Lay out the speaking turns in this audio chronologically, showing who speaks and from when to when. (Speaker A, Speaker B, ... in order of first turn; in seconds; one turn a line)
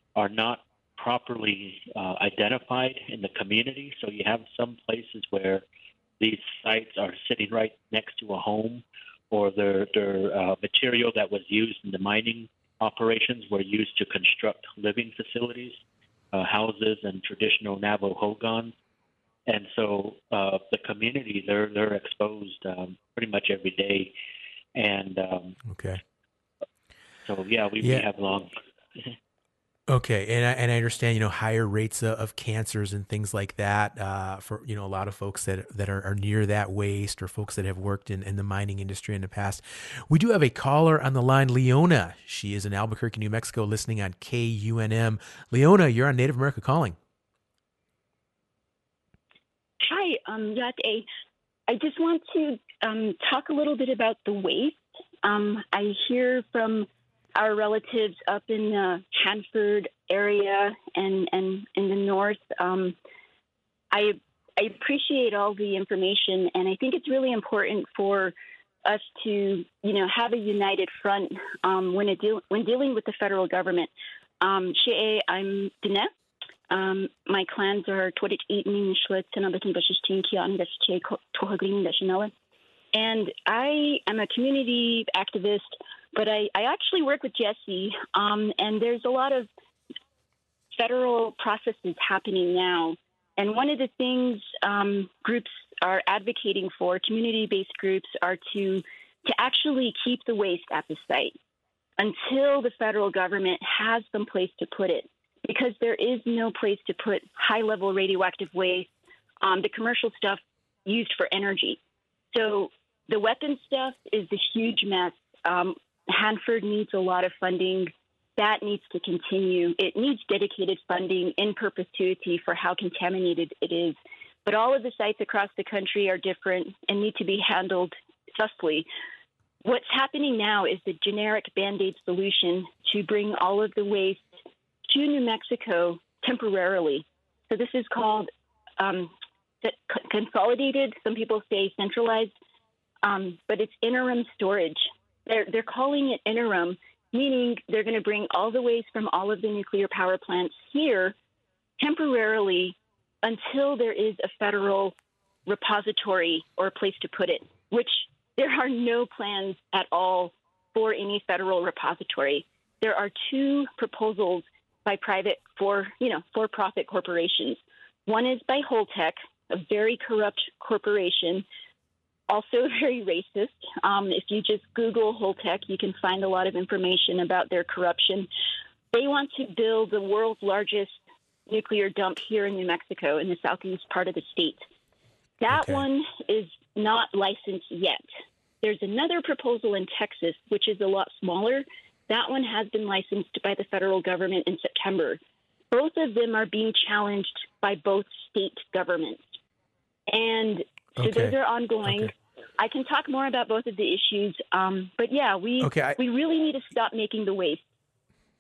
Speaker A: 0.1-5.6
Speaker A: 6.2-15.8
Speaker A: 16.3-18.8
Speaker A: 19.5-24.1
Speaker A: 24.8-25.6
Speaker B: 25.7-26.0
Speaker A: 27.3-29.0
Speaker B: 27.8-28.1
Speaker B: 29.9-47.0
Speaker C: 49.8-51.1
Speaker C: 51.7-63.0
Speaker C: 63.9-76.1
Speaker C: 76.7-82.3
Speaker C: 82.9-89.5
Speaker C: 90.7-101.3
Speaker C: 102.0-108.9
Speaker C: 109.4-111.8
Speaker C: 112.3-128.9
Speaker C: 129.6-134.3
Speaker C: 134.9-142.3
Speaker C: 143.0-151.2
Speaker C: 151.8-154.9
Speaker C: 155.5-171.4
Speaker C: 172.3-178.3
Speaker C: 178.9-180.9
Speaker C: 181.5-184.6
Speaker C: 185.4-188.0
Speaker B: 185.5-185.8
Speaker C: 188.6-195.2
Speaker C: 195.7-199.4
Speaker C: 200.1-207.6
Speaker B: 201.0-201.3
Speaker B: 201.9-202.1
Speaker B: 205.6-206.0